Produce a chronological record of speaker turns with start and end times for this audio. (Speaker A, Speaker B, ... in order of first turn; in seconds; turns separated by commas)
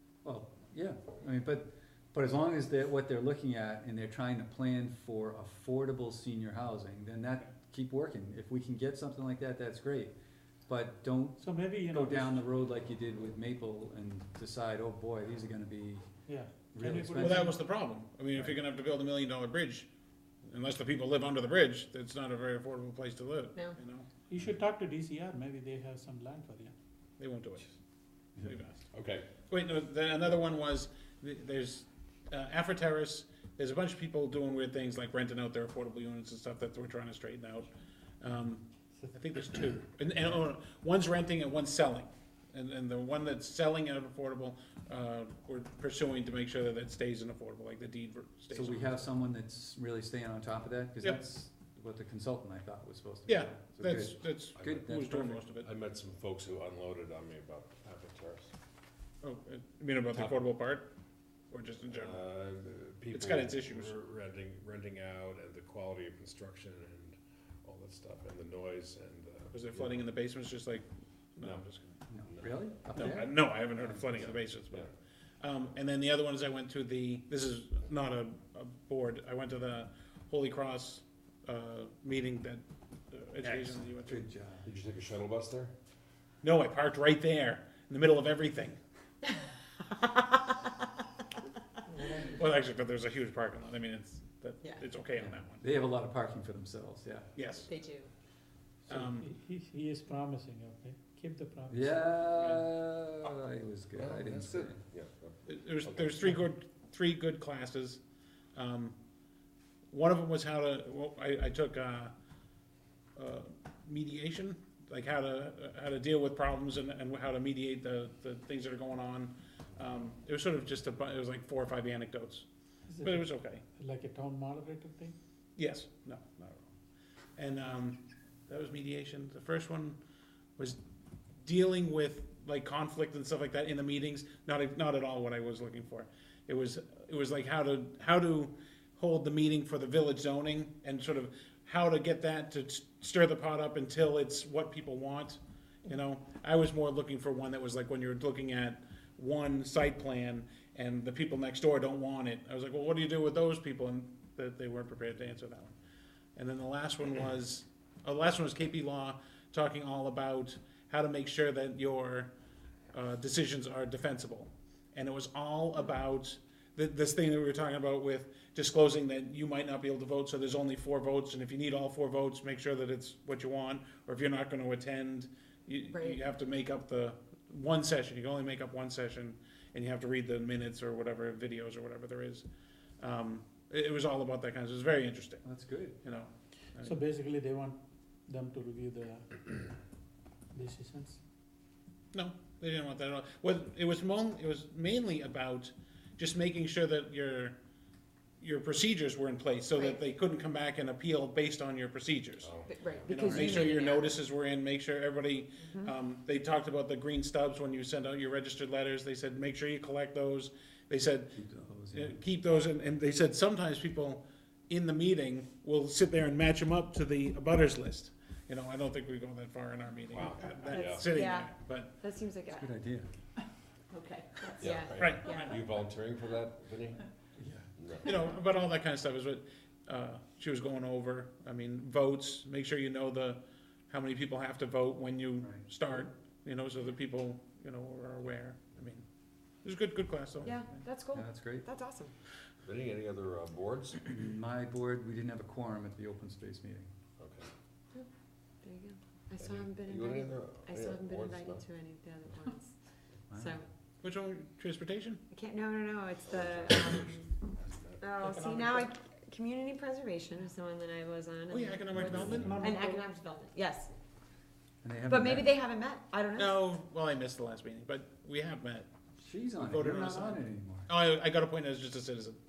Speaker A: 0.2-10.1, Speaker A: 10.7-16.1, Speaker B: 11.4-12.4, Speaker B: 16.3-17.6, Speaker A: 16.7-17.5, Speaker C: 17.2-19.9, Speaker C: 20.5-24.1, Speaker B: 24.3-26.7, Speaker C: 27.2-27.7, Speaker C: 28.4-28.9, Speaker D: 28.9-29.3, Speaker C: 29.5-37.7, Speaker C: 38.2-49.1, Speaker A: 48.5-55.5, Speaker C: 53.3-55.7, Speaker D: 54.6-54.9, Speaker D: 55.6-58.5, Speaker C: 59.2-60.9, Speaker D: 60.1-60.5, Speaker C: 61.5-62.3, Speaker D: 61.9-70.1, Speaker C: 63.1-64.0, Speaker C: 69.5-72.0, Speaker D: 71.4-71.7, Speaker A: 72.1-74.2, Speaker D: 72.3-73.0, Speaker C: 73.0-74.9, Speaker D: 74.1-74.9, Speaker C: 75.4-84.3, Speaker A: 83.4-84.7, Speaker D: 84.6-85.7, Speaker C: 86.4-88.8, Speaker B: 91.9-92.5, Speaker C: 92.3-95.6, Speaker A: 95.2-97.3, Speaker C: 97.3-97.7, Speaker E: 97.7-98.1, Speaker B: 98.9-102.1, Speaker C: 98.9-99.3, Speaker A: 101.7-104.8, Speaker C: 102.3-102.7, Speaker D: 104.0-106.2, Speaker C: 105.5-108.0, Speaker C: 108.5-109.0, Speaker C: 109.9-112.1, Speaker C: 113.2-122.5, Speaker B: 122.9-125.2, Speaker C: 123.0-123.6, Speaker C: 125.6-126.7, Speaker C: 127.4-130.0, Speaker C: 131.4-155.8, Speaker C: 156.4-162.3, Speaker C: 162.9-182.5, Speaker E: 175.9-176.2, Speaker C: 183.0-185.4, Speaker A: 185.4-186.0, Speaker C: 186.0-187.0, Speaker B: 186.8-189.6, Speaker B: 190.5-191.2, Speaker C: 192.1-197.6, Speaker C: 198.4-202.5, Speaker E: 199.7-200.0, Speaker D: 202.4-203.6, Speaker E: 202.7-204.2, Speaker C: 203.1-211.3, Speaker A: 203.3-203.6, Speaker E: 205.7-205.9, Speaker A: 211.3-212.2, Speaker C: 211.9-221.9, Speaker D: 220.1-221.1, Speaker E: 220.7-222.7, Speaker A: 222.5-223.1, Speaker E: 223.9-225.5, Speaker D: 224.6-227.1, Speaker C: 224.9-225.6, Speaker A: 227.4-227.7, Speaker D: 227.8-228.1, Speaker C: 228.0-239.0, Speaker A: 235.4-235.7, Speaker C: 239.6-240.8, Speaker E: 240.4-242.1, Speaker A: 241.1-241.7, Speaker D: 242.6-244.1, Speaker A: 244.1-246.9, Speaker D: 247.2-247.5, Speaker E: 248.6-252.8, Speaker D: 249.4-251.7, Speaker A: 253.3-253.6, Speaker E: 253.4-253.7, Speaker C: 254.0-255.2, Speaker E: 255.3-257.3, Speaker D: 256.2-258.1, Speaker E: 258.0-263.9, Speaker B: 258.2-258.9, Speaker C: 261.5-262.8, Speaker D: 261.9-262.6, Speaker B: 262.3-263.1, Speaker A: 264.8-265.6, Speaker E: 265.1-266.6, Speaker C: 266.4-268.9, Speaker A: 269.2-270.9, Speaker C: 269.6-272.4